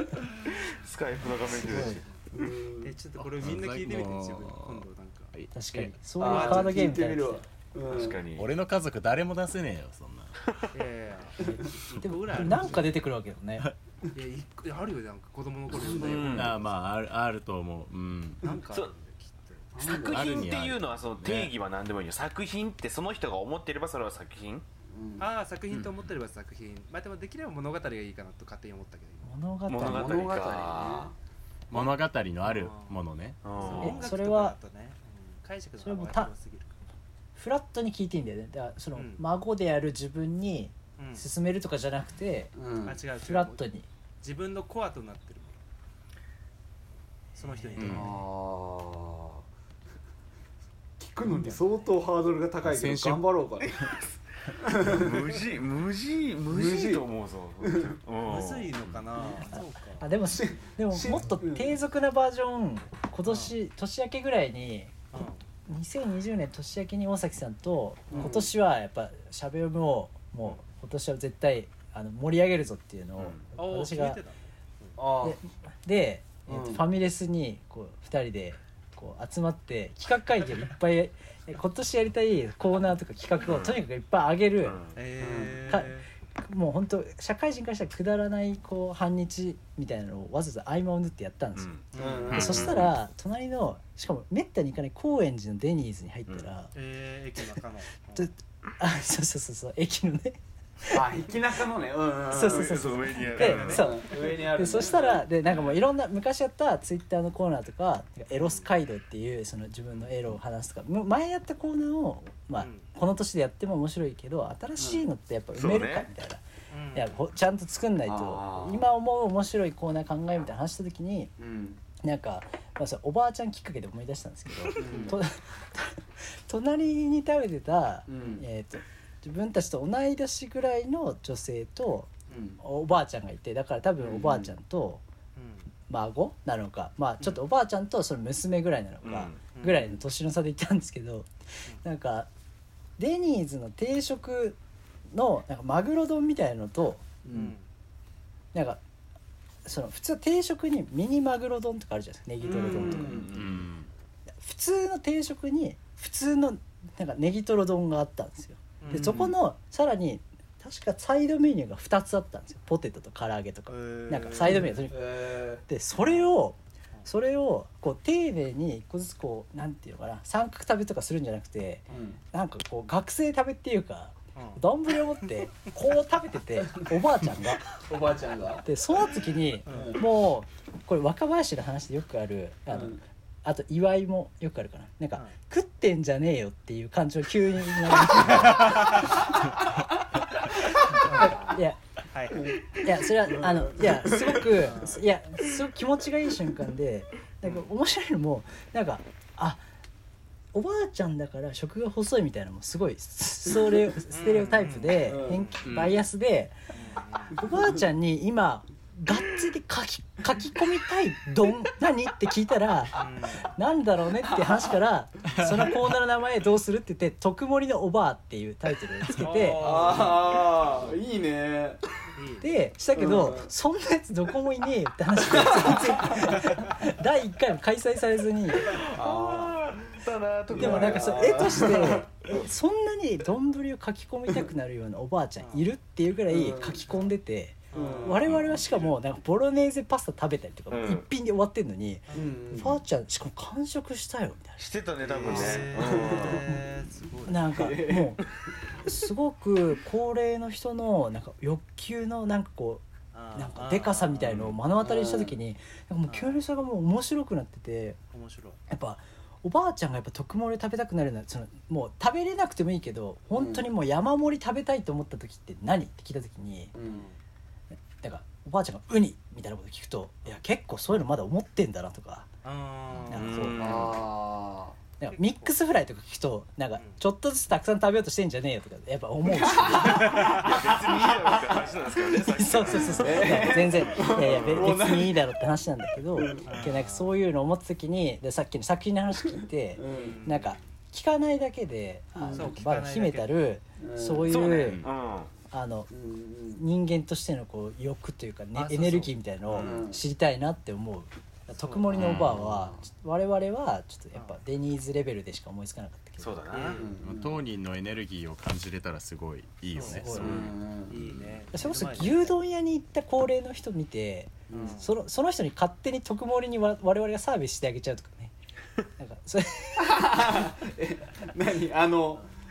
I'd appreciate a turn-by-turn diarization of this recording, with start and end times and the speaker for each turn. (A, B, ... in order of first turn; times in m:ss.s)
0:00.5-0:02.0 A
0:01.6-0:02.0 B
0:01.8-0:02.2 C
0:02.3-0:03.0 D
0:02.8-0:06.9 C
0:03.2-0:06.0 E
0:05.5-0:07.5 B
0:06.2-0:08.3 D
0:07.9-0:08.5 A
0:08.4-0:10.4 E
0:10.7-0:12.9 C
0:11.4-0:13.7 B
0:12.4-0:12.9 E
0:14.1-0:16.7 C
0:15.7-0:16.6 D
0:16.0-0:16.6 A
0:16.2-0:18.4 E
0:18.4-0:19.7 C
0:19.7-0:20.6 D
0:19.8-0:24.7 A
0:19.9-0:21.5 E
0:24.9-0:25.3 D
0:25.2-0:29.3 C
0:29.2-0:30.2 B
0:29.7-0:31.1 A
0:29.8-0:31.2 D
0:31.7-0:33.4 E
0:32.4-0:36.8 C
0:33.4-0:34.1 A
0:33.8-0:34.6 B
0:35.8-0:36.3 B
0:37.4-0:42.6 B
0:39.0-0:39.2 C
0:41.0-0:41.3 C
0:42.6-0:43.0 D
0:42.8-0:43.6 C
0:43.2-0:43.9 B
0:44.2-0:45.6 C
0:47.4-0:48.2 C
0:47.8-0:48.1 E
0:47.8-0:49.4 D
0:51.0-0:53.9 D
0:51.7-0:52.0 C
0:52.6-0:53.2 E
0:54.6-0:55.3 D
0:54.7-0:59.1 A
0:56.5-0:57.1 D
0:57.6-0:58.0 D
0:58.2-1:00.1 C
0:59.3-1:05.1 B
1:00.3-1:01.8 D
1:03.2-1:03.5 C
1:05.1-1:05.4 C
1:05.7-1:14.2 B
1:08.1-1:08.5 D
1:13.2-1:13.4 A
1:13.6-1:15.0 C
1:15.0-1:15.4 D
1:15.2-1:24.8 B
1:16.5-1:16.8 D
1:23.4-1:23.8 A
1:24.6-1:25.0 A
1:25.0-1:26.1 C
1:25.2-1:25.7 D
1:25.7-1:31.7 B
1:31.6-1:32.5 A
1:31.9-1:32.8 C
1:32.0-1:32.8 D
1:32.3-1:36.7 B
1:36.3-1:36.5 A
1:36.7-1:38.3 C
1:38.2-1:41.0 B
1:40.9-1:45.3 D
1:42.3-1:56.4 B
1:42.4-1:43.9 A
1:43.2-1:44.9 C
1:48.4-1:48.7 C
1:52.6-1:52.9 C
1:54.8-1:55.0 D
1:55.5-1:56.1 A
1:56.7-1:57.2 C
1:57.0-2:01.3 B
1:58.0-1:58.9 D
2:01.4-2:01.8 D
2:02.0-2:15.0 B
2:04.8-2:05.2 D
2:08.1-2:08.5 D
2:12.3-2:12.6 D
2:14.0-2:14.6 D
2:15.4-2:15.7 C
2:15.9-2:21.3 B
2:19.0-2:19.4 A
2:19.5-2:20.0 C
2:21.8-2:22.3 B
2:23.0-2:24.6 B
2:25.1-2:27.0 B
2:27.2-2:27.6 D
2:27.3-2:27.7 C
2:28.5-2:28.8 B
2:29.6-2:33.3 B
2:32.4-2:33.3 D
2:32.6-2:33.0 C
2:32.6-2:33.7 A
2:33.3-2:33.9 E
2:34.4-2:57.7 B
2:38.8-2:39.2 C
2:38.9-2:39.4 D
2:43.7-2:44.8 C
2:44.4-2:45.6 D
2:46.0-2:46.3 C
2:51.9-2:52.2 D
2:54.4-2:54.6 C
2:56.6-2:57.0 D
2:57.8-2:58.7 D
2:58.6-3:09.2 B
2:59.7-3:00.0 C
2:59.7-3:00.0 D
3:02.7-3:03.0 D
3:08.2-3:08.9 C
3:10.8-3:11.8 B
3:11.0-3:11.6 D
3:11.0-3:11.6 C
3:12.1-3:12.8 C
3:12.3-3:15.5 D
3:12.8-3:19.6 B
3:14.6-3:15.1 C
3:20.5-3:26.6 B
3:24.1-3:25.6 C
3:25.0-3:25.7 D
3:25.7-3:26.0 E
3:26.7-3:27.4 C
3:27.4-3:39.6 B
3:27.4-3:27.8 D
3:32.9-3:33.6 C
3:34.3-3:34.7 D
3:35.3-3:35.9 E
3:39.1-3:39.8 E
3:39.2-3:41.0 C
3:39.6-3:41.8 D
3:42.2-3:42.6 C
3:42.4-3:48.8 B
3:43.0-3:43.5 D
3:45.2-3:46.7 D
3:48.6-3:51.7 A
3:48.7-3:49.6 D
3:50.5-3:52.2 D
3:50.6-4:04.6 B
3:55.4-3:55.7 C
3:56.3-3:56.8 D
3:57.7-3:58.4 C
3:57.7-3:58.4 D
3:58.2-3:58.7 A
4:00.7-4:01.0 A
4:02.1-4:02.4 C
4:02.1-4:02.8 D
4:04.6-4:06.4 A
4:05.0-4:06.4 D
4:05.2-4:07.5 C
4:05.3-4:06.7 B
4:07.2-4:08.2 B
4:07.5-4:08.8 D
4:08.8-4:18.0 B
4:13.1-4:14.5 C
4:14.8-4:15.4 D
4:16.1-4:16.4 C
4:18.1-4:18.6 C
4:18.7-4:26.7 B
4:23.3-4:23.7 D
4:26.8-4:27.0 D
4:26.8-4:27.2 C
4:28.0-4:32.3 B
4:32.4-4:33.6 C
4:33.0-4:34.0 A
4:33.1-4:33.6 B
4:33.5-4:34.8 D
4:35.0-4:40.1 B
4:35.1-4:35.6 C
4:39.3-4:41.7 D
4:39.8-4:40.5 C
4:39.9-4:44.4 A
4:42.2-4:54.8 B
4:43.0-4:45.2 D
4:46.1-4:46.6 D
4:46.4-4:47.2 C
4:49.2-4:50.2 D
4:49.9-4:50.7 C
4:52.2-4:52.5 D
4:52.3-4:53.4 C
4:53.8-4:54.5 D
4:54.3-4:55.3 A
4:55.5-4:55.9 B
4:55.9-4:56.6 D
4:56.5-5:06.4 B
4:58.6-4:59.7 C
4:59.6-5:00.0 D
5:01.6-5:02.0 C
5:02.0-5:02.9 D
5:02.0-5:02.3 A
5:02.0-5:02.4 E
5:06.2-5:06.9 A
5:06.5-5:06.9 C
5:06.8-5:07.5 D
5:07.0-5:10.6 E
5:09.7-5:12.4 C
5:09.8-5:10.3 B
5:10.2-5:11.0 D
5:11.5-5:18.3 B
5:14.5-5:14.8 D
5:14.5-5:14.9 C
5:19.0-5:20.5 B
5:19.8-5:22.3 D